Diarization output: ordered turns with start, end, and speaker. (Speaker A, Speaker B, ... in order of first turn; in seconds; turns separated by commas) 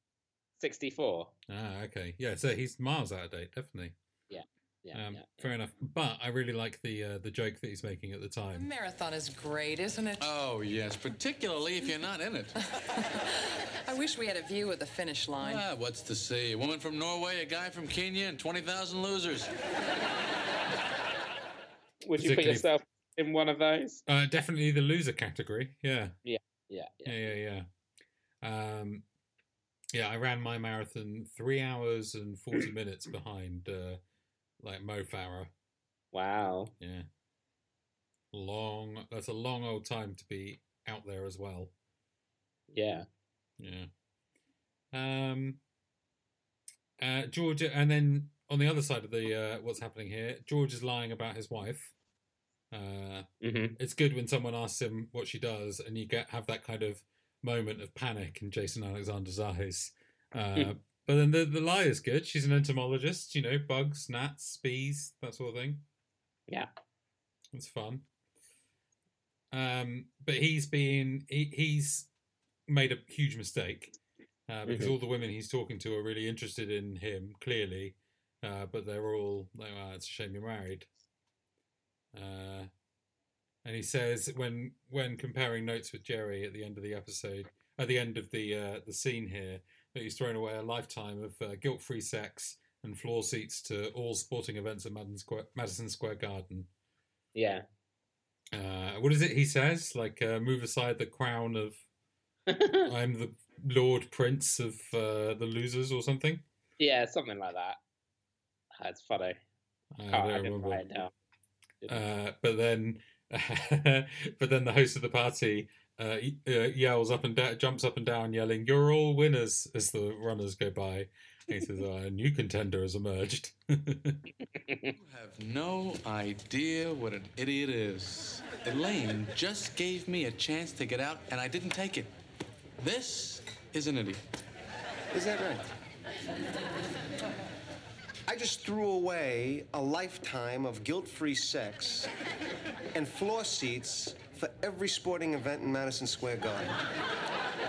Speaker A: 0.6-1.3, Speaker B: 1.5-3.9, Speaker A: 4.3-5.5, Speaker B: 4.9-8.7, Speaker C: 8.6-10.1, Speaker D: 10.2-12.6, Speaker C: 13.9-15.6, Speaker D: 15.4-19.5, Speaker A: 22.0-24.0, Speaker B: 22.2-22.7, Speaker B: 24.1-26.1, Speaker A: 26.2-27.3, Speaker B: 27.0-27.7, Speaker B: 28.4-29.0, Speaker B: 29.9-34.0, Speaker B: 34.6-35.5, Speaker A: 36.1-36.7, Speaker B: 36.8-37.1, Speaker B: 38.3-41.7, Speaker A: 42.7-43.0, Speaker B: 43.6-43.9, Speaker B: 44.9-45.6, Speaker B: 47.0-51.9, Speaker B: 52.7-53.3, Speaker A: 53.4-53.8, Speaker B: 53.8-65.8, Speaker B: 67.5-68.0, Speaker B: 69.5-72.1, Speaker B: 72.7-73.9, Speaker B: 74.5-80.9, Speaker A: 74.7-74.9, Speaker B: 82.1-82.7, Speaker B: 83.6-96.7, Speaker A: 97.3-97.6, Speaker B: 98.5-101.8, Speaker A: 102.5-102.9, Speaker B: 102.8-106.4, Speaker A: 106.8-107.8, Speaker A: 108.8-109.4, Speaker B: 110.0-110.8, Speaker A: 110.1-111.1, Speaker B: 111.9-124.2, Speaker A: 124.5-124.9, Speaker D: 124.9-132.1, Speaker D: 132.8-134.2, Speaker E: 135.1-135.7, Speaker E: 138.3-142.1, Speaker E: 142.9-146.8